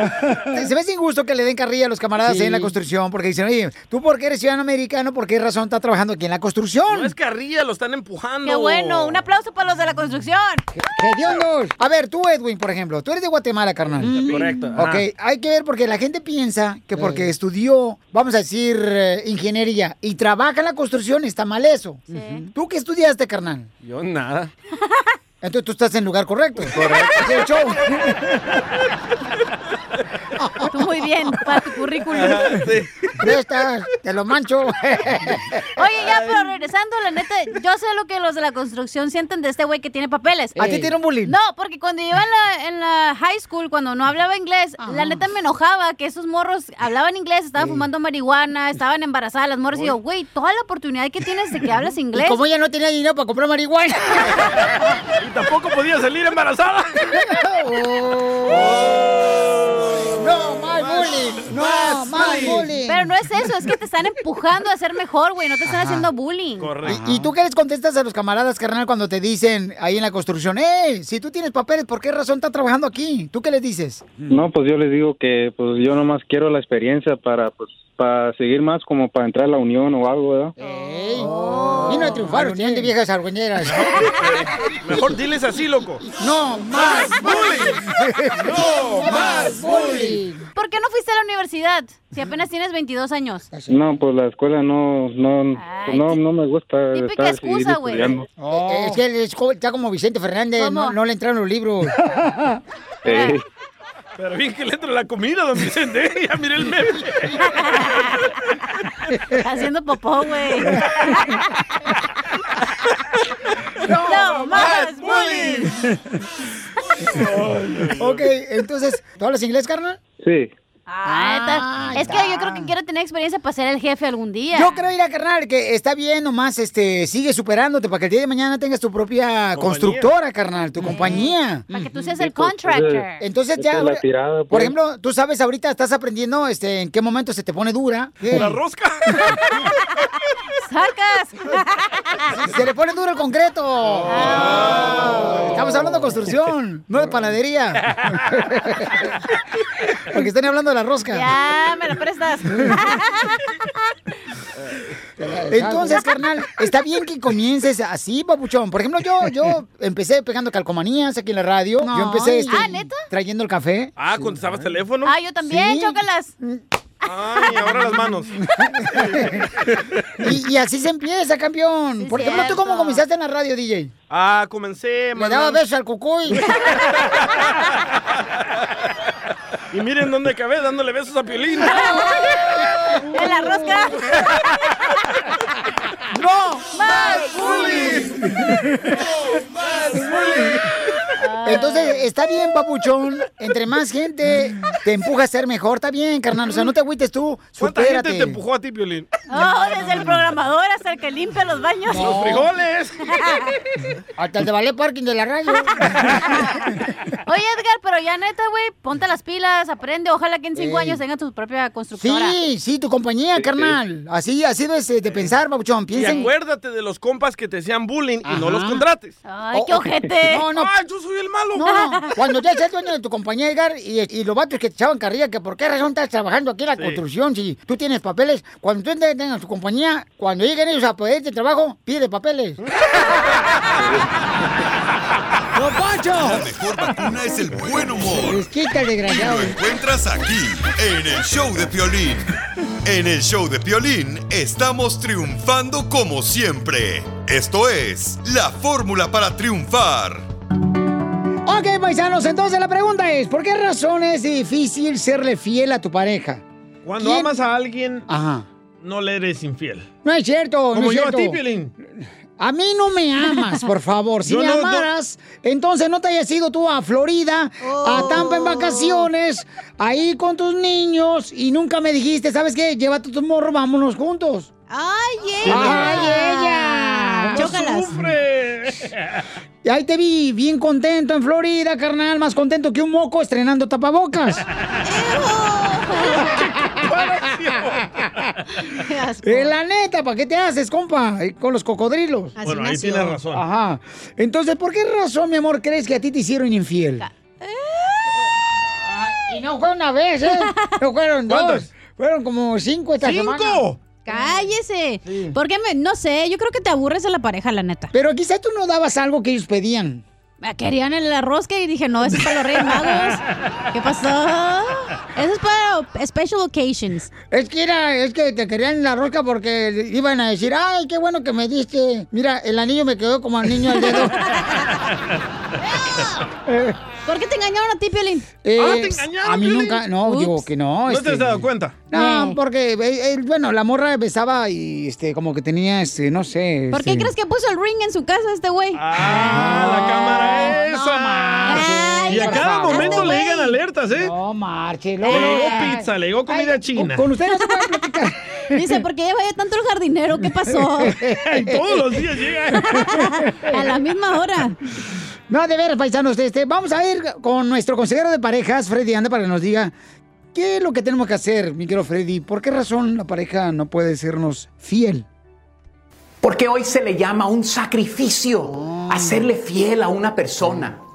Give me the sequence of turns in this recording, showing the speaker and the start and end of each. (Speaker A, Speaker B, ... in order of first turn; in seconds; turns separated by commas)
Speaker A: 0.4-7.1, Speaker B: 6.9-9.2, Speaker C: 8.4-10.6, Speaker A: 10.7-23.7, Speaker B: 14.0-15.0, Speaker C: 14.3-14.7, Speaker C: 22.1-22.5, Speaker B: 23.8-24.5, Speaker A: 25.4-28.2, Speaker C: 30.7-32.6, Speaker B: 32.1-33.1, Speaker A: 33.2-35.6, Speaker C: 35.8-52.4, Speaker A: 40.5-41.3, Speaker A: 44.8-45.2, Speaker A: 47.6-47.9, Speaker A: 52.1-54.5, Speaker B: 55.2-57.0, Speaker A: 57.1-59.2, Speaker B: 58.5-60.1, Speaker A: 60.0-63.1, Speaker B: 60.7-62.7, Speaker C: 62.2-67.0, Speaker A: 65.7-66.1, Speaker B: 66.6-67.1, Speaker A: 66.8-74.3, Speaker D: 74.3-80.5, Speaker A: 80.6-84.1, Speaker C: 80.8-82.9, Speaker B: 83.6-86.0, Speaker A: 86.1-90.4, Speaker B: 86.8-87.8, Speaker B: 88.4-90.2, Speaker C: 90.5-93.5, Speaker A: 93.5-93.8, Speaker D: 93.7-98.3, Speaker C: 95.5-96.2, Speaker C: 96.9-98.2, Speaker A: 98.4-102.5, Speaker C: 100.6-101.0, Speaker D: 103.0-103.4, Speaker C: 103.1-103.3, Speaker B: 104.2-107.4, Speaker C: 107.4-108.2, Speaker C: 109.3-111.4, Speaker B: 113.8-115.7, Speaker C: 114.0-115.7, Speaker B: 117.1-118.3, Speaker A: 117.2-120.0, Speaker D: 120.2-120.5, Speaker C: 120.9-124.8, Speaker A: 121.0-122.7, Speaker A: 124.5-131.7, Speaker B: 129.5-130.1, Speaker C: 130.8-133.2, Speaker D: 132.1-134.8, Speaker A: 133.2-138.6, Speaker B: 138.3-139.3, Speaker C: 140.6-142.4, Speaker A: 142.4-149.0, Speaker C: 144.1-145.2, Speaker B: 144.1-145.4, Speaker A: 150.1-151.3, Speaker C: 151.1-153.4, Speaker A: 155.2-163.9, Speaker C: 155.5-156.2, Speaker C: 161.8-163.0, Speaker B: 163.9-165.1, Speaker C: 165.0-166.3, Speaker A: 165.4-166.6, Speaker B: 167.0-168.3, Speaker C: 167.1-167.5, Speaker B: 168.9-169.8, Speaker A: 168.9-169.3, Speaker A: 170.2-173.9, Speaker C: 172.0-173.0, Speaker B: 174.1-175.6, Speaker A: 175.2-176.5, Speaker B: 176.5-178.4, Speaker B: 179.7-182.0, Speaker C: 181.7-182.1, Speaker C: 183.1-184.0, Speaker A: 183.2-183.5, Speaker A: 186.1-186.8, Speaker C: 186.7-188.0, Speaker A: 187.3-188.0, Speaker C: 191.2-192.0, Speaker A: 191.4-198.4, Speaker B: 197.6-199.1, Speaker C: 199.3-202.2, Speaker A: 201.9-202.5, Speaker B: 201.9-203.2, Speaker C: 203.2-203.5, Speaker A: 204.2-206.2, Speaker C: 206.0-206.4, Speaker C: 207.2-212.4, Speaker A: 210.5-211.0, Speaker A: 211.9-216.3, Speaker B: 215.9-219.2, Speaker A: 218.2-218.8, Speaker C: 219.2-220.4, Speaker A: 219.5-220.7, Speaker B: 220.5-221.8, Speaker A: 221.5-232.6, Speaker C: 221.6-222.0, Speaker A: 235.5-236.4, Speaker E: 236.2-238.4, Speaker A: 238.0-239.6, Speaker E: 239.1-242.3, Speaker E: 242.8-250.2, Speaker A: 251.4-256.4, Speaker B: 256.8-258.1, Speaker A: 257.0-257.3, Speaker A: 258.1-258.4, Speaker B: 258.8-259.9, Speaker A: 260.0-261.4, Speaker B: 260.7-261.7, Speaker A: 262.4-274.5, Speaker B: 264.2-264.9, Speaker C: 267.6-269.1, Speaker C: 274.7-278.0, Speaker B: 275.4-276.1, Speaker A: 275.4-277.5, Speaker B: 277.3-279.2, Speaker A: 279.6-284.4, Speaker C: 284.8-286.4, Speaker B: 286.3-288.1, Speaker C: 288.7-289.5, Speaker A: 289.2-292.4, Speaker C: 292.4-293.2, Speaker B: 292.4-293.4, Speaker A: 293.3-297.1, Speaker C: 297.0-298.1, Speaker A: 298.7-304.2, Speaker C: 300.3-300.7, Speaker B: 301.3-301.7, Speaker B: 303.0-303.8, Speaker C: 304.0-307.9, Speaker A: 307.9-310.0, Speaker C: 310.4-317.1, Speaker A: 317.3-324.2, Speaker A: 326.4-326.8, Speaker C: 327.1-328.3, Speaker A: 328.4-337.1, Speaker B: 328.6-329.8, Speaker C: 330.0-330.4, Speaker B: 330.9-331.8, Speaker C: 331.9-332.4, Speaker C: 336.7-339.5, Speaker B: 338.7-344.1, Speaker A: 339.0-343.2, Speaker C: 341.4-343.5, Speaker A: 344.0-348.8, Speaker C: 345.0-345.8, Speaker B: 345.1-347.1, Speaker C: 347.3-347.6, Speaker C: 348.5-351.0, Speaker A: 350.4-351.9, Speaker B: 351.2-352.8, Speaker C: 352.5-354.6, Speaker A: 352.9-353.7, Speaker A: 355.3-359.7, Speaker A: 360.3-365.1, Speaker F: 366.2-370.8, Speaker A: 368.4-369.3